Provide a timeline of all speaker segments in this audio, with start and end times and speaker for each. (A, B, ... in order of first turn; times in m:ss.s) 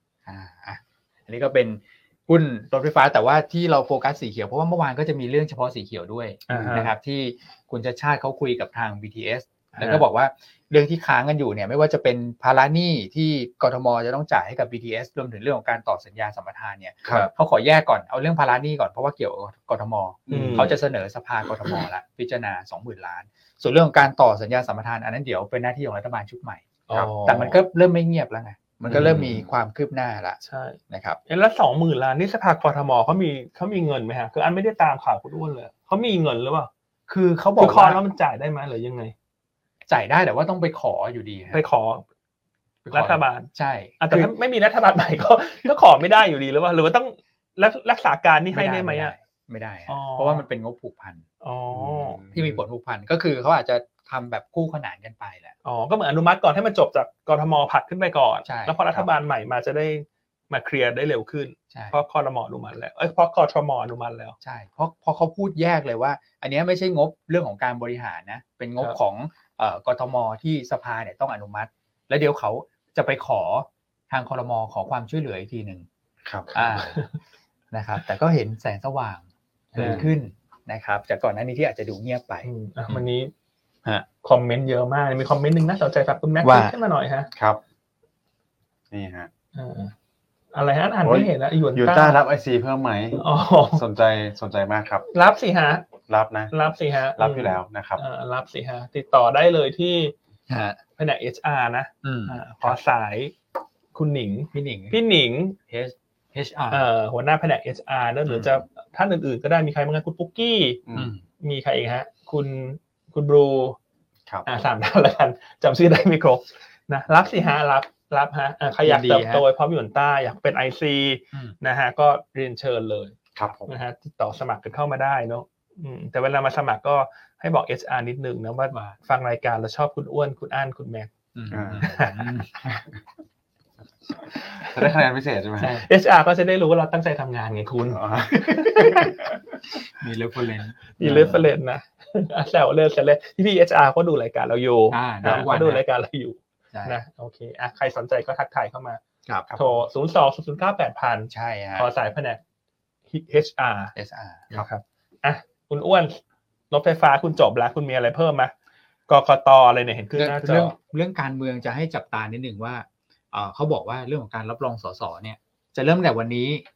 0:00.2-0:30.4 A
0:06.5-0:06.9 B
0:09.7-0:10.0 B
0:20.3-0:20.7 C
0:20.3-0:20.7 B
0:26.9-0:27.6 B
0:28.8-0:29.5 C
0:28.9-0:29.2 B
0:30.4-0:36.7 B
0:30.9-0:31.2 A
0:37.1-0:38.0 A
0:37.6-0:39.1 B
0:39.9-0:41.6 A
0:41.5-0:42.0 B
0:42.8-0:44.3 A
0:42.9-0:49.1 B
0:48.5-0:51.2 A
0:49.9-0:50.4 B
0:51.4-0:52.2 B
0:51.7-0:52.6 C
0:52.3-0:55.5 A
0:55.6-1:04.4 B
0:58.4-0:59.1 A
1:01.7-1:02.0 A
1:04.4-1:15.8 A
1:16.2-1:16.5 C
1:16.5-1:17.0 A
1:16.7-1:17.2 B
1:17.7-1:22.5 A
1:19.7-1:20.0 B
1:19.8-1:20.1 C
1:22.4-1:23.3 B
1:24.2-1:27.3 B
1:26.4-1:26.7 A
1:27.3-1:27.6 C
1:28.9-1:29.3 C
1:29.5-1:29.9 B
1:30.5-1:32.2 B
1:31.0-1:33.2 C
1:33.2-1:33.8 B
1:33.7-1:35.0 C
1:35.1-1:35.9 B
1:36.1-1:36.5 C
1:36.5-1:40.1 B
1:37.2-1:38.0 C
1:40.5-1:40.8 A
1:41.0-1:43.3 B
1:42.0-1:42.8 A
1:43.9-1:45.6 B
1:44.5-1:45.0 A
1:45.7-1:46.8 A
1:46.7-1:50.8 B
1:50.9-1:51.1 C
1:50.9-1:51.2 A
1:51.4-1:53.8 B
1:54.4-2:03.2 B
1:58.8-1:59.4 A
2:03.3-2:03.7 C
2:03.7-2:11.1 B
2:11.3-2:12.8 A
2:11.5-2:11.9 C
2:11.8-2:12.3 B
2:14.3-2:14.9 B
2:14.5-2:15.8 C
2:15.6-2:15.9 A
2:15.6-2:19.2 B
2:17.9-2:18.4 C
2:18.4-2:21.5 A
2:21.0-2:29.0 B
2:24.9-2:25.8 A
2:26.7-2:27.0 A
2:29.2-2:29.5 A
2:29.5-2:32.4 B
2:31.3-2:31.9 A
2:33.1-2:33.9 B
2:33.9-2:34.7 A
2:34.5-2:38.5 B
2:39.1-2:40.7 B
2:40.2-2:46.6 A